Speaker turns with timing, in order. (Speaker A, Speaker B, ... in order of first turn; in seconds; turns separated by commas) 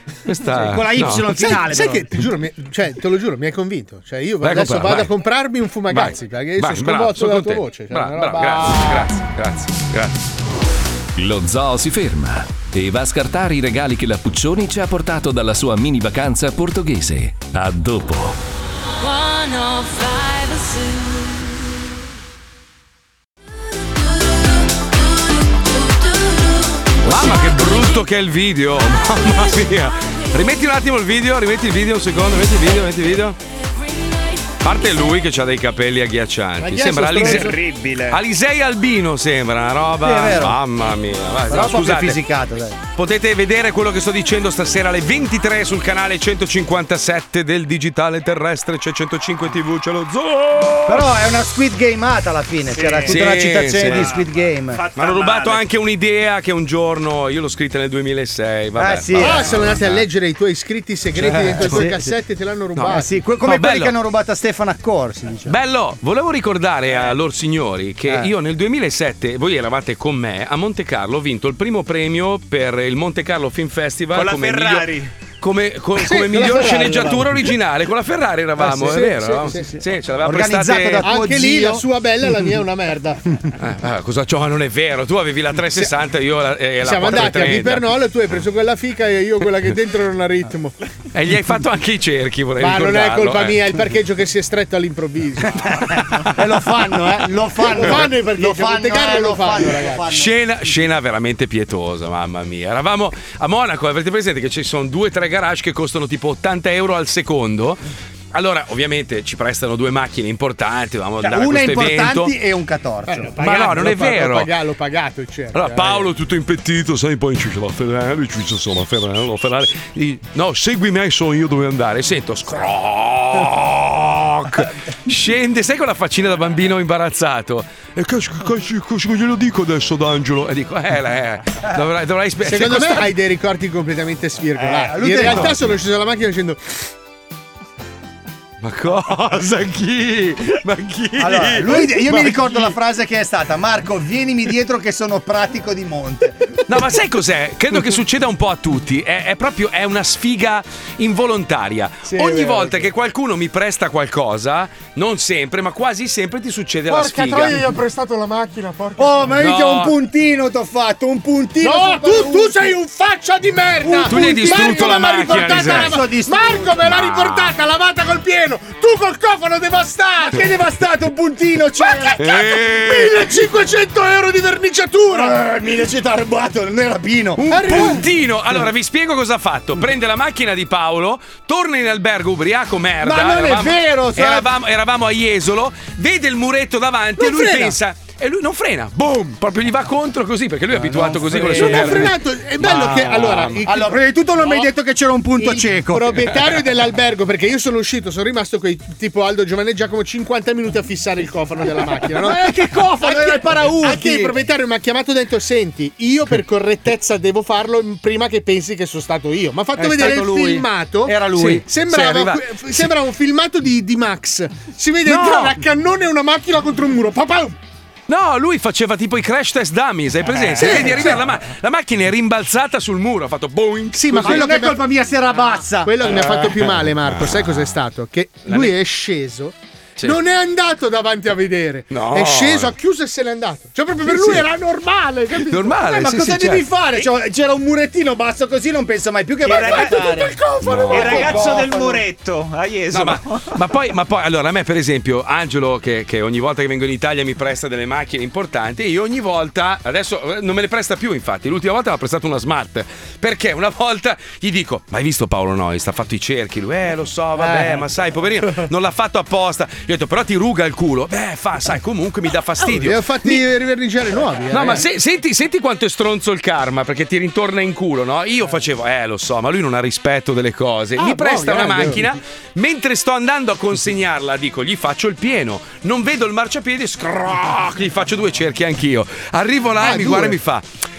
Speaker A: 0.2-1.6, Speaker B: 0.5-2.1, Speaker C: 1.4-9.1, Speaker A: 4.4-5.1, Speaker A: 5.9-10.2, Speaker D: 11.2-18.4, Speaker E: 19.0-21.6, Speaker E: 24.0-27.3, Speaker A: 27.0-33.4, Speaker E: 33.8-34.6, Speaker A: 34.6-37.6, Speaker C: 36.6-37.6, Speaker F: 37.1-38.2, Speaker A: 38.1-42.2, Speaker B: 40.0-40.6, Speaker B: 41.5-42.8, Speaker A: 42.9-51.1, Speaker B: 50.9-54.8, Speaker A: 53.0-54.2, Speaker A: 54.9-60.0, Speaker B: 58.8-59.5, Speaker C: 59.2-63.1, Speaker A: 61.2-61.9, Speaker B: 61.2-62.1, Speaker B: 62.8-65.5, Speaker A: 63.4-63.9, Speaker A: 65.5-81.1, Speaker F: 74.1-75.1, Speaker C: 76.0-77.5, Speaker B: 78.6-81.8, Speaker C: 78.9-79.6, Speaker C: 81.0-83.2, Speaker A: 83.6-87.9, Speaker C: 86.8-90.7, Speaker A: 91.1-93.6, Speaker C: 92.6-96.0, Speaker B: 96.1-100.3, Speaker C: 97.7-100.1, Speaker A: 100.1-107.8, Speaker A: 108.3-112.3, Speaker B: 111.2-113.3, Speaker C: 113.1-116.1, Speaker A: 113.4-114.5, Speaker A: 115.5-133.1, Speaker C: 132.4-136.6, Speaker B: 134.6-135.6, Speaker A: 138.6-142.7, Speaker B: 141.2-146.4, Speaker A: 146.7-157.6, Speaker C: 156.9-159.3, Speaker B: 159.0-162.7, Speaker A: 159.4-159.9, Speaker C: 161.6-170.4, Speaker B: 163.8-166.6, Speaker A: 164.0-166.0, Speaker A: 166.8-167.5, Speaker B: 170.3-172.2, Speaker C: 171.8-175.4, Speaker A: 172.2-173.3, Speaker B: 175.1-178.0, Speaker A: 177.4-193.7, Speaker C: 177.5-178.0, Speaker B: 183.0-184.5, Speaker C: 187.2-187.8, Speaker B: 190.8-192.1, Speaker C: 191.4-193.9, Speaker B: 193.6-196.1, Speaker C: 195.4-217.6, Speaker B: 202.2-204.3, Speaker B: 209.8-211.6, Speaker A: 211.3-212.9, Speaker A: 215.0-215.6, Speaker A: 218.1-224.5, Speaker C: 220.5-221.2, Speaker B: 220.6-221.0, Speaker C: 224.0-224.9, Speaker B: 224.1-225.9, Speaker C: 225.8-235.7, Speaker A: 226.1-227.7, Speaker A: 228.4-228.7, Speaker A: 231.9-232.7, Speaker A: 234.1-234.4, Speaker A: 235.5-236.7, Speaker B: 235.7-242.0, Speaker F: 239.4-240.2, Speaker A: 240.6-241.2, Speaker F: 240.9-243.5, Speaker A: 242.9-263.4, Speaker C: 257.4-257.7, Speaker C: 262.6-264.8, Speaker A: 264.5-280.6, Speaker C: 271.0-272.0, Speaker C: 279.8-280.4